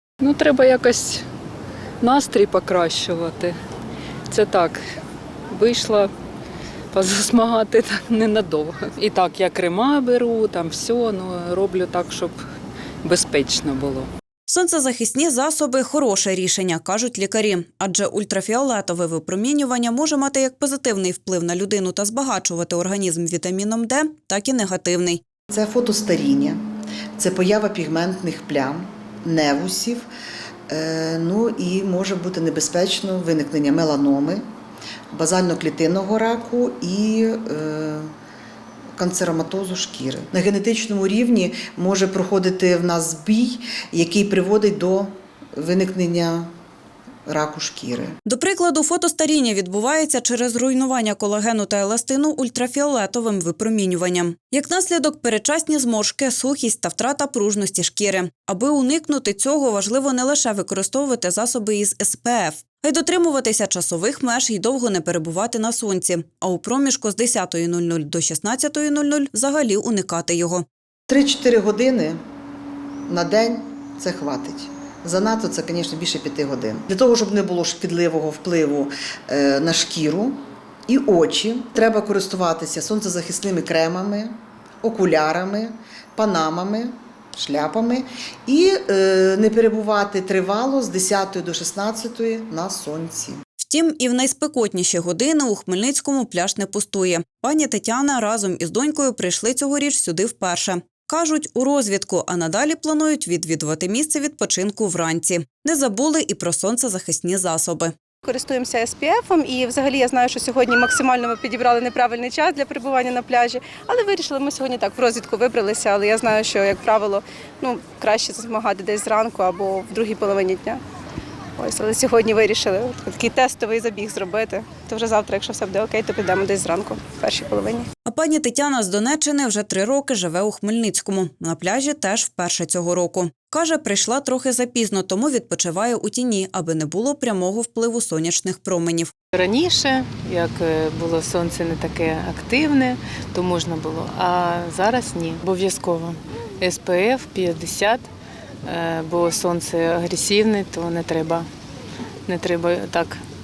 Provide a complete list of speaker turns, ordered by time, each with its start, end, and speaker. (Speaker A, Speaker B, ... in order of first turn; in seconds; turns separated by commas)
Speaker A: 0.2-1.2, Speaker A: 2.0-3.5, Speaker A: 4.3-4.8, Speaker A: 5.5-6.1, Speaker A: 6.9-12.4, Speaker A: 13.0-14.1, Speaker B: 14.5-25.2, Speaker C: 25.5-26.6, Speaker C: 27.2-30.1, Speaker C: 30.7-34.4, Speaker C: 35.1-38.1, Speaker C: 39.0-46.5, Speaker C: 47.3-48.1, Speaker B: 48.2-70.6, Speaker C: 71.1-72.2, Speaker C: 73.1-93.4, Speaker B: 93.6-107.9, Speaker D: 108.2-120.8, Speaker D: 121.6-127.9, Speaker B: 128.1-139.1, Speaker E: 139.3-148.1, Speaker E: 148.6-151.5, Speaker E: 152.2-153.2